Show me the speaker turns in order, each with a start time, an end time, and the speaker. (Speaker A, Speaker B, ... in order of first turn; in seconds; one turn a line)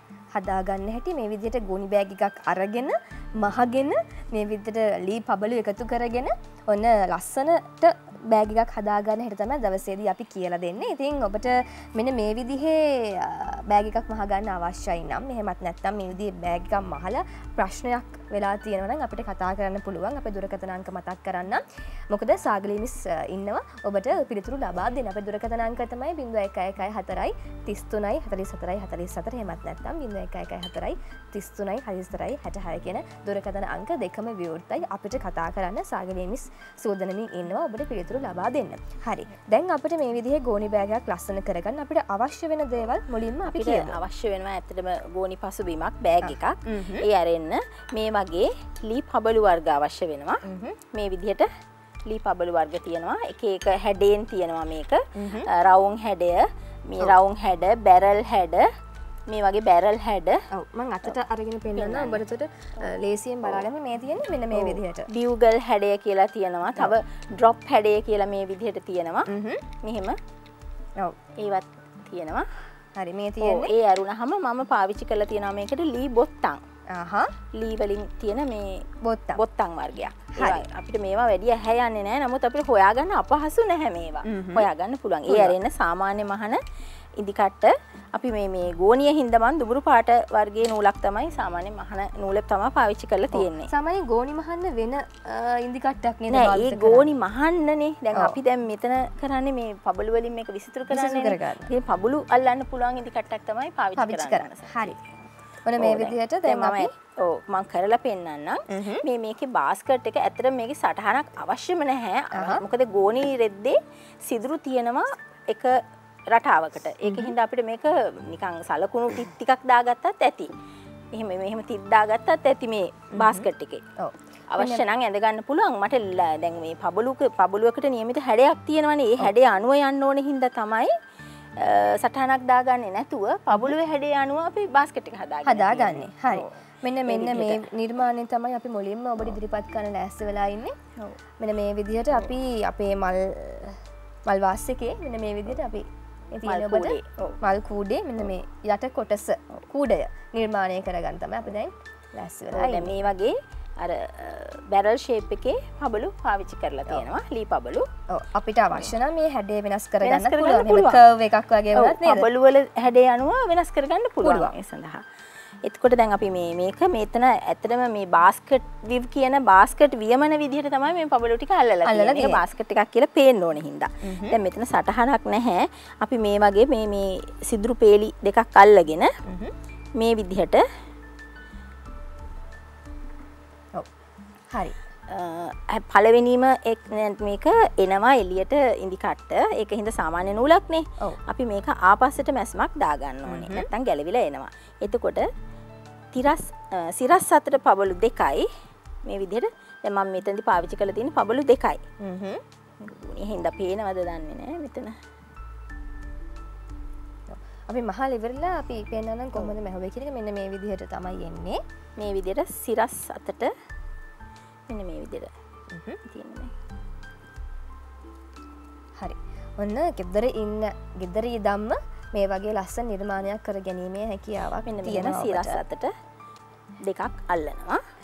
Speaker A: 0.3-44.0
Speaker B: 43.5-50.4
Speaker A: 46.2-47.0
Speaker A: 50.5-50.8
Speaker B: 50.9-51.5
Speaker B: 52.1-58.7
Speaker A: 55.2-55.5
Speaker B: 59.3-60.4
Speaker A: 60.5-65.1
Speaker B: 61.8-62.2
Speaker B: 64.5-69.3
Speaker A: 69.3-69.6
Speaker B: 69.8-70.2
Speaker B: 71.4-72.5
Speaker A: 73.0-73.7
Speaker B: 73.4-76.6
Speaker A: 76.9-77.3
Speaker B: 77.5-78.8
Speaker A: 79.0-79.4
Speaker B: 79.4-86.6
Speaker A: 80.4-80.6
Speaker A: 84.2-84.7
Speaker A: 85.3-85.5
Speaker B: 87.2-93.7
Speaker A: 93.3-97.1
Speaker B: 96.3-105.0
Speaker A: 100.9-101.7
Speaker A: 104.0-105.0
Speaker A: 105.7-106.9
Speaker B: 105.8-115.7
Speaker A: 108.7-109.0
Speaker A: 112.3-112.6
Speaker B: 116.3-120.5
Speaker A: 117.0-117.3
Speaker B: 121.2-123.8
Speaker A: 123.2-123.5
Speaker A: 124.0-124.8
Speaker B: 124.5-130.9
Speaker B: 131.6-136.6
Speaker A: 135.4-140.8
Speaker B: 137.1-137.6
Speaker A: 141.4-152.9
Speaker B: 146.5-147.4
Speaker B: 152.5-157.9
Speaker A: 158.1-162.3
Speaker B: 160.0-161.0
Speaker B: 161.8-165.0
Speaker A: 164.2-164.5
Speaker B: 165.7-179.1
Speaker A: 171.8-172.4
Speaker A: 174.1-174.4
Speaker A: 179.3-179.5
Speaker B: 180.0-180.6
Speaker B: 185.1-195.3
Speaker A: 193.3-193.7
Speaker B: 196.1-198.5
Speaker B: 199.1-201.8
Speaker A: 202.0-202.4
Speaker B: 202.8-204.9
Speaker A: 207.3-211.6
Speaker B: 212.0-213.5
Speaker B: 214.7-215.3
Speaker A: 215.7-216.0
Speaker B: 216.1-216.5
Speaker A: 219.0-225.6
Speaker B: 224.7-225.9
Speaker B: 226.8-227.8